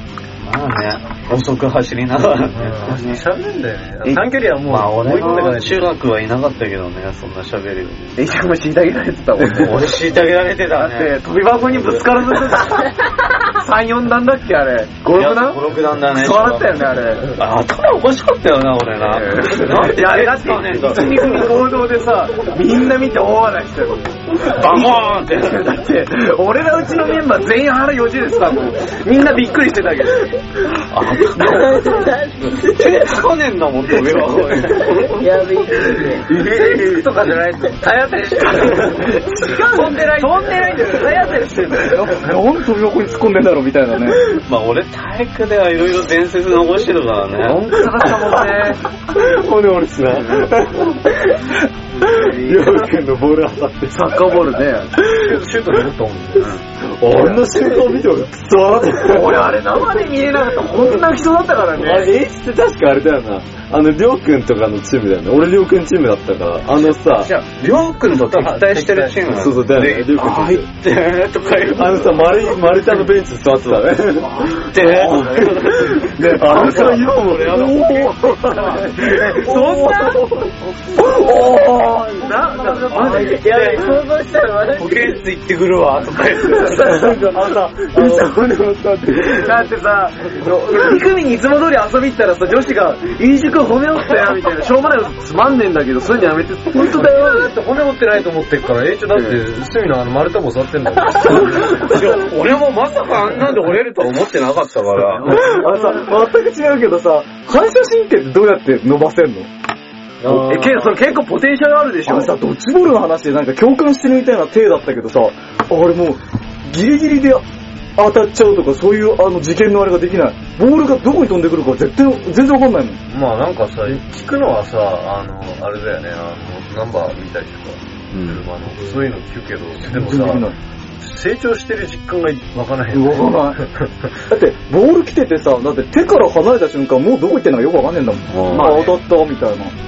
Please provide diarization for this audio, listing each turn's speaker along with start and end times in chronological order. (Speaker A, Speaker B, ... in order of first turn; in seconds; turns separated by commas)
Speaker A: 0.4-3.0, Speaker B: 2.5-5.9, Speaker C: 2.9-3.2, Speaker A: 4.6-8.3, Speaker C: 5.2-5.5, Speaker C: 8.2-10.0, Speaker A: 9.6-12.6, Speaker C: 10.7-17.4, Speaker A: 15.1-21.6, Speaker C: 19.0-30.4, Speaker A: 24.4-25.7, Speaker A: 30.9-32.1, Speaker D: 31.2-33.2, Speaker A: 32.6-35.3, Speaker C: 34.0-34.8, Speaker D: 35.2-36.3, Speaker C: 36.2-42.2, Speaker B: 37.7-38.7, Speaker B: 39.8-40.7, Speaker D: 39.8-40.1, Speaker E: 41.8-44.2, Speaker A: 44.3-47.8, Speaker C: 47.3-48.8, Speaker F: 48.0-51.4, Speaker C: 50.1-50.5, Speaker C: 51.9-52.9, Speaker F: 52.0-54.5, Speaker C: 53.9-54.9, Speaker B: 55.1-56.6, Speaker C: 56.4-57.5, Speaker F: 56.8-59.6, Speaker C: 59.0-62.1, Speaker F: 61.7-67.3, Speaker A: 66.7-73.0, Speaker B: 68.1-69.4, Speaker F: 69.3-70.7, Speaker F: 71.7-79.4, Speaker A: 73.5-73.8, Speaker A: 74.5-79.7, Speaker C: 74.8-75.6, Speaker E: 76.0-80.3, Speaker C: 78.8-80.3, Speaker E: 81.0-83.1, Speaker C: 81.1-83.4, Speaker A: 82.7-84.0, Speaker D: 83.0-85.2, Speaker A: 84.8-87.4, Speaker F: 86.5-89.6, Speaker A: 88.0-88.2, Speaker C: 89.3-97.5, Speaker B: 96.8-101.8, Speaker C: 99.1-99.4, Speaker A: 101.3-105.4, Speaker C: 105.1-106.0, Speaker E: 105.3-109.5, Speaker D: 110.2-110.7, Speaker F: 110.3-110.6, Speaker E: 110.3-110.7, Speaker C: 110.4-112.3, Speaker E: 112.1-117.4, Speaker E: 118.0-123.0, Speaker B: 123.1-130.5, Speaker F: 128.1-128.4, Speaker E: 129.8-130.6, Speaker B: 131.0-133.9, Speaker E: 132.9-133.6, Speaker E: 134.3-139.8, Speaker F: 138.3-138.7, Speaker C: 138.5-139.0